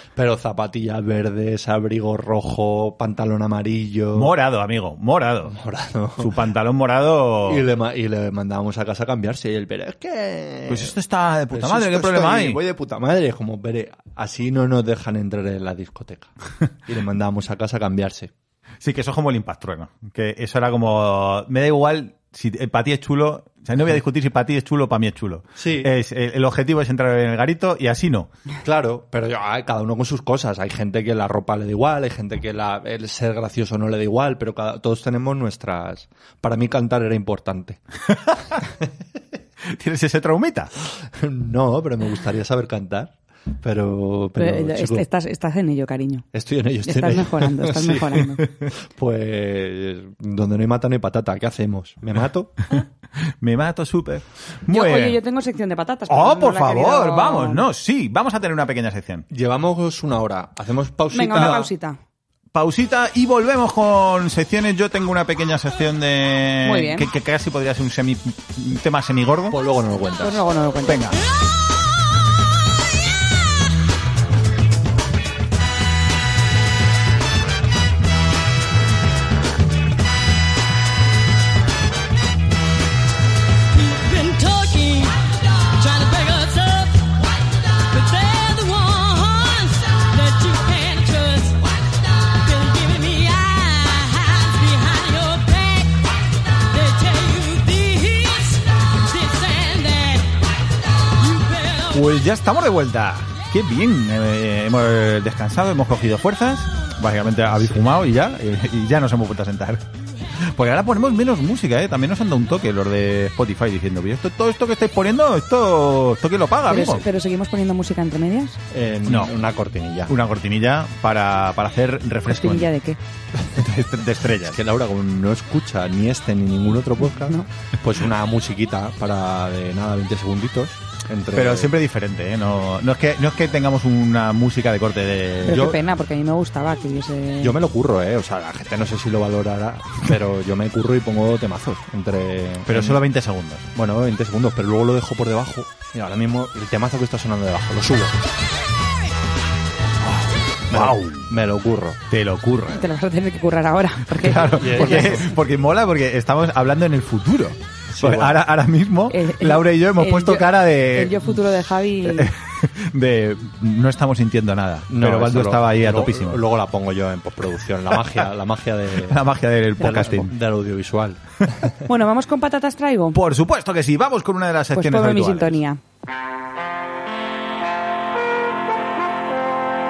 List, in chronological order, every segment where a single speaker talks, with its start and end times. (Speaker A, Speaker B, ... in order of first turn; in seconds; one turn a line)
Speaker A: 0.1-4.3
Speaker B: 4.1-5.5
Speaker A: 5.5-6.4
Speaker B: 6.2-7.6
Speaker A: 7.5-10.9
Speaker B: 10.7-12.6
Speaker A: 11.5-16.3
Speaker A: 16.9-18.3
Speaker B: 18.8-28.3
Speaker A: 25.6-25.9
Speaker A: 28.6-37.8
Speaker B: 39.7-40.7
Speaker A: 41.0-45.1
Speaker C: 44.4-46.3
Speaker A: 46.3-52.5
Speaker C: 46.8-48.5
Speaker B: 53.4-55.2
Speaker C: 54.7-57.6
Speaker B: 56.1-59.3
Speaker A: 59.3-61.6
Speaker C: 61.1-62.0
Speaker B: 61.4-61.7
Speaker B: 62.5-69.6
Speaker C: 66.7-67.1
Speaker A: 69.5-70.5
Speaker C: 70.2-71.2
Speaker B: 70.9-71.2
Speaker D: 83.7-102.2
Speaker B: 101.9-109.8
Speaker B: 110.4-117.0
Speaker C: 116.7-118.6
Speaker A: 118.7-120.1
Speaker B: 119.1-119.3
Speaker B: 120.1-122.7
Speaker C: 122.3-123.0
Speaker B: 123.5-124.6
Speaker A: 124.4-131.7
Speaker B: 131.3-135.7
Speaker C: 135.4-137.6
Speaker A: 137.4-143.0
Speaker B: 142.7-143.7
Speaker A: 143.8-148.2
Speaker A: 150.7-152.0
Speaker B: 150.7-151.3
Speaker B: 152.1-152.9
Speaker C: 152.7-155.3
Speaker B: 154.2-161.5
Speaker A: 154.5-155.3
Speaker A: 157.9-158.4
Speaker C: 159.1-162.3
Speaker B: 162.0-166.4
Speaker A: 164.9-169.2
Speaker B: 169.1-170.3
Speaker A: 169.8-171.8
Speaker C: 171.9-173.2
Speaker B: 173.1-175.6
Speaker C: 174.7-175.8